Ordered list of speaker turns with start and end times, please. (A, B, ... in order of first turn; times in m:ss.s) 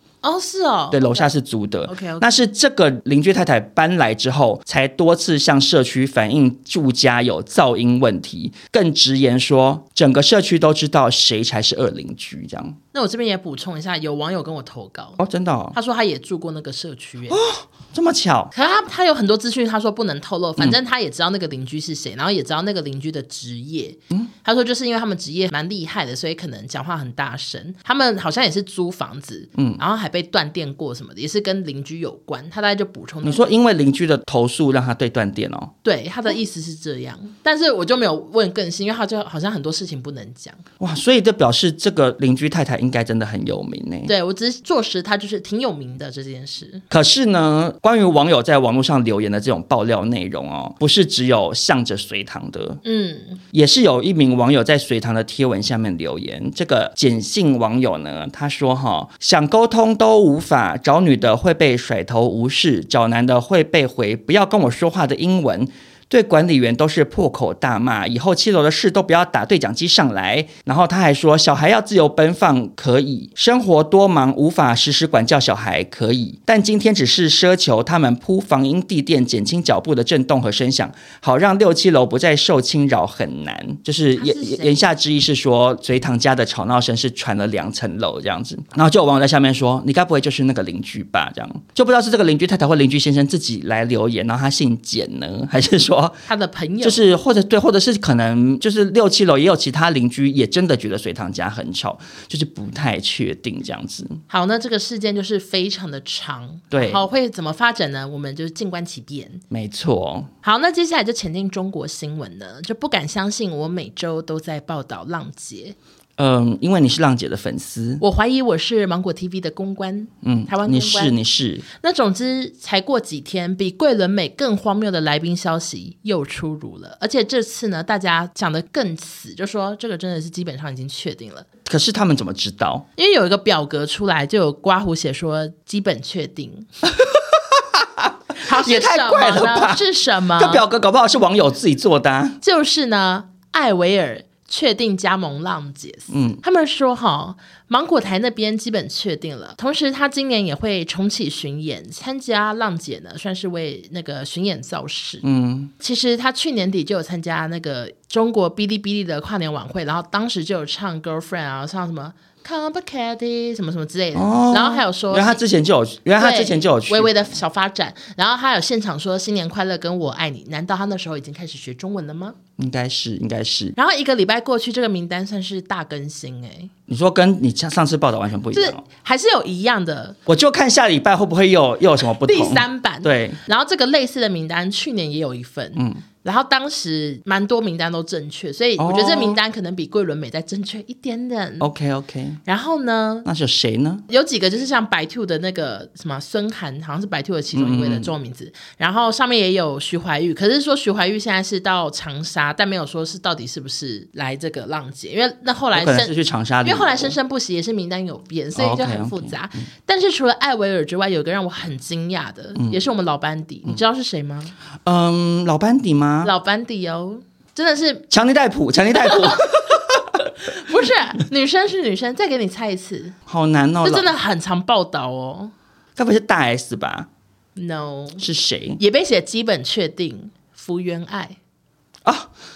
0:00.2-0:01.3 A
0:00.9-0:12.8 B
0:01.9-0:02.3 A
0:12.9-0:15.2 A
0:15.2-0:15.8 B
0:15.7-0:17.4 A
0:17.3-0:18.5 B
0:18.5-0:33.6 A
0:29.6-0:29.8 B
0:33.2-0:35.7 B
0:35.8-0:40.6 A
0:40.8-0:44.1 B
0:44.1-0:46.8 A
0:46.9-0:52.8 B
0:52.8-0:53.4 A
0:53.5-1:36.2 B
1:24.2-1:24.8 A
1:36.3-1:37.0 A
1:36.8-1:44.2 B
1:44.3-1:49.4 A
1:46.7-1:47.1 B
1:49.5-1:50.3 B
1:50.4-1:55.8 A
1:56.2-1:58.0 B
1:58.0-2:01.2 A
2:00.2-2:01.6 B
2:01.8-2:11.5 A
2:11.7-2:12.9 B
2:13.0-2:16.7 A
2:17.0-2:22.4 B
2:18.4-2:20.6 A
2:22.4-2:35.2 A
2:26.1-2:26.4 B
2:35.2-2:35.7 B
2:35.8-2:45.4 A
2:44.2-2:47.4 B
2:46.2-2:52.4 A
2:52.6-2:53.8 B
2:53.8-2:56.7 A
2:56.9-2:58.8 B
2:58.5-3:00.2 A
3:00.3-3:03.4 B
3:02.2-3:11.7 A
3:05.8-3:06.0 B
3:08.8-3:09.4 B
3:11.6-3:12.4 B
3:12.5-3:13.3 A
3:13.2-3:14.0 B
3:14.1-3:26.1 A
3:17.5-3:18.1 B
3:25.7-3:27.2 B
3:26.6-3:34.5 A
3:28.6-3:29.4 B
3:34.9-3:36.3 B
3:36.2-3:38.0 A
3:38.1-3:40.2 B
3:39.0-3:43.2 A
3:43.3-3:44.1 B
3:43.8-3:45.5 A
3:46.0-3:47.1 B
3:47.6-3:48.2 A
3:48.2-3:48.8 B
3:48.8-3:51.4 A
3:52.0-3:52.3 B